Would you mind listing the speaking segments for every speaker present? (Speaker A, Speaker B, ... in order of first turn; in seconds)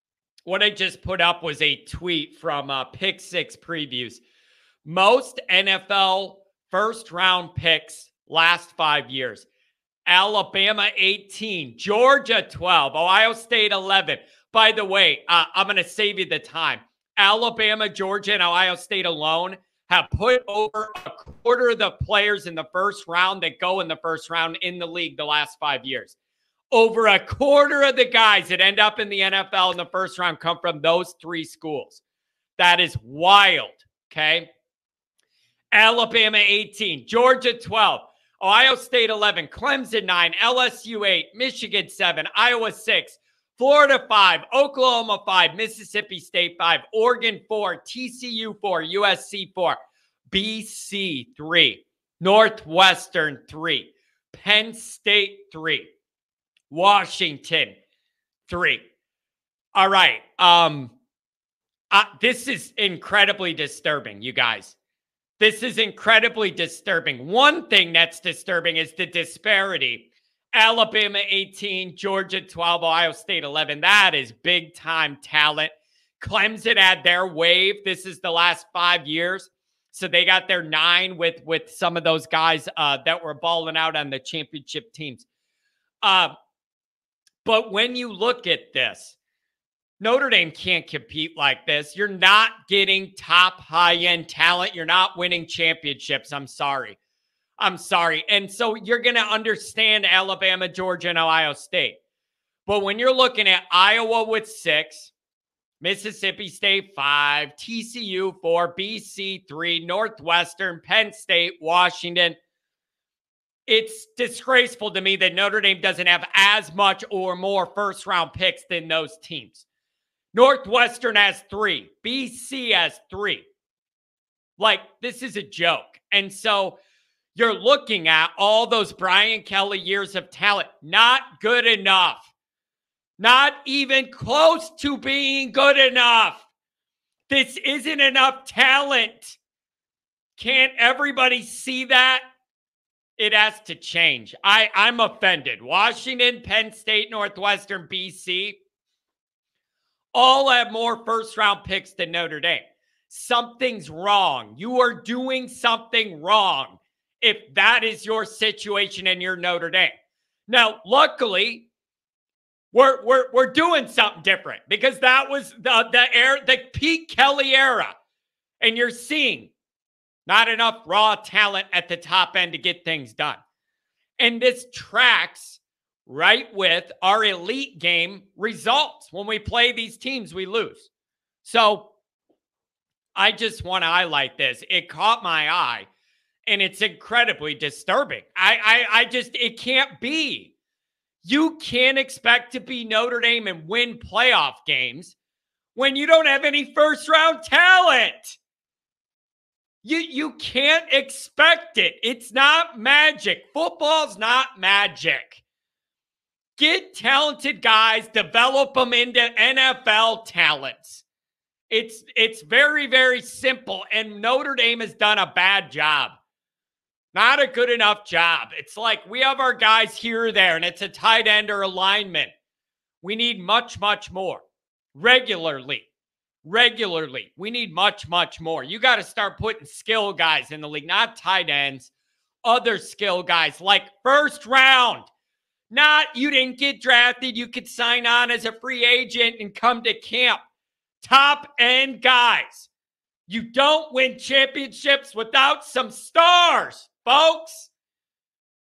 Speaker A: 0.5-4.2, 4.8-9.5, 10.1-26.1, 26.7-32.0, 32.6-34.5, 35.7-49.8, 50.3-55.9, 56.7-57.8, 58.5-58.8, 59.7-60.9, 61.9-64.8, 65.4-85.3, 86.0-86.3, 87.4-89.2, 90.0-97.0, 97.6-102.0, 102.7-105.1, 105.8-112.4, 113.7-119.7, 120.3-123.4, 124.6-126.8, 127.3-132.3, 133.2-136.5, 137.3-139.4, 140.4-142.2, 143.2-148.6, 150.1-159.9, 160.5-161.7, 162.7-167.9, 168.6-169.5, 170.2-173.4, 174.2-180.9, 181.4-181.9, 183.1-185.9, 186.4-190.5, 191.2-195.2, 195.7-198.4, 199.8-205.4, 206.6-211.0, 211.7-216.2, 217.1-222.3, 223.0-224.4, 224.9-225.8, 226.4-231.9, 232.4-235.1, 235.7-240.4, 241.0-242.7, 243.3-247.7